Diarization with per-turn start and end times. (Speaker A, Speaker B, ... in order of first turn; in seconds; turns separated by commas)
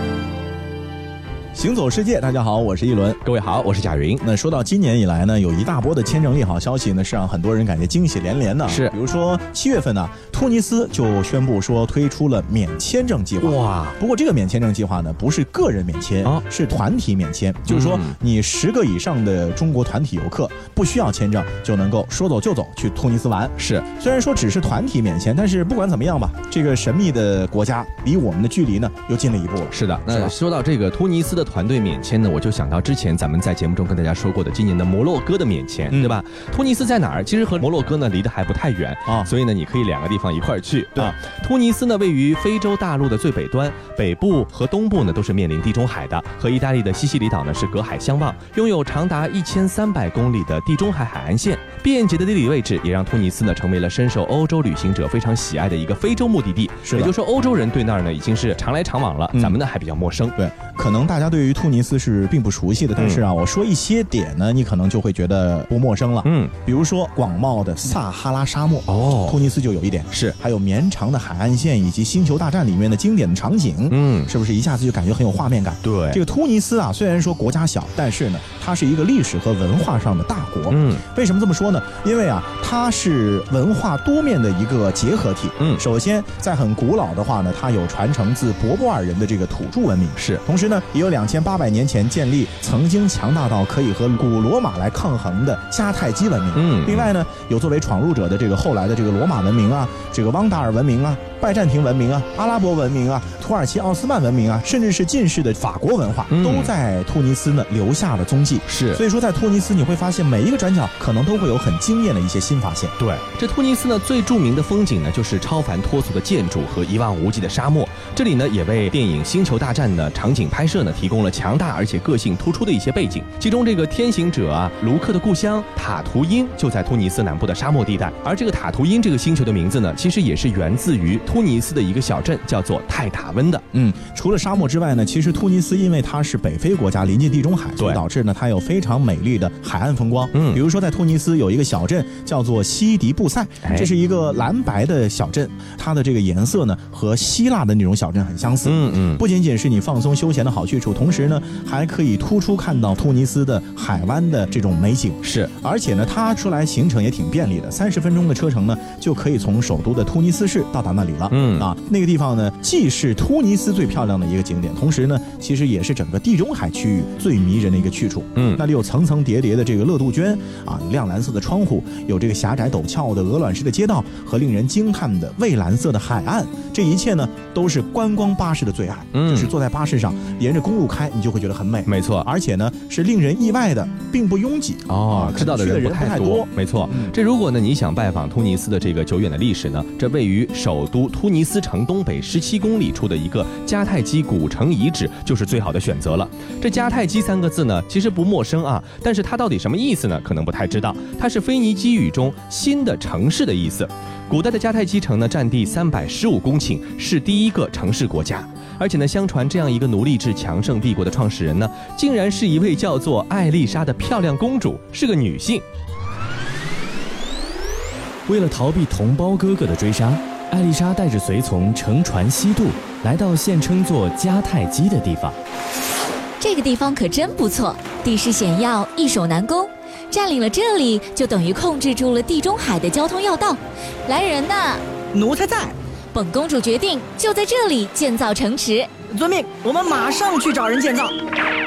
Speaker A: 1.5-3.2, Speaker B: 3.2-4.2, Speaker A: 4.2-30.3, Speaker B: 8.7-8.9, Speaker B: 13.4-14.0, Speaker B: 17.7-18.1, Speaker B: 23.6-23.9, Speaker B: 29.7-60.3, Speaker A: 35.9-36.2, Speaker A: 39.0-39.3, Speaker A: 56.8-57.1, Speaker A: 60.4-112.9, Speaker B: 66.2-66.5, Speaker B: 68.9-69.4, Speaker B: 73.9-74.3, Speaker B: 75.8-76.2, Speaker B: 80.7-81.0, Speaker B: 90.2-90.4, Speaker B: 96.5-97.1, Speaker B: 106.3-106.7, Speaker B: 108.7-109.0, Speaker B: 113.0-133.6, Speaker A: 133.7-187.1, Speaker B: 140.3-140.6, Speaker B: 143.6-143.9, Speaker B: 148.6-149.2, Speaker B: 155.2-155.5, Speaker B: 161.3-161.7, Speaker B: 168.3-168.6, Speaker B: 179.1-179.5, Speaker B: 181.8-182.3, Speaker B: 184.9-215.6, Speaker C: 218.2-225.3, Speaker D: 226.4-234.8, Speaker E: 235.1-235.7, Speaker D: 236.1-238.9, Speaker E: 239.1-241.1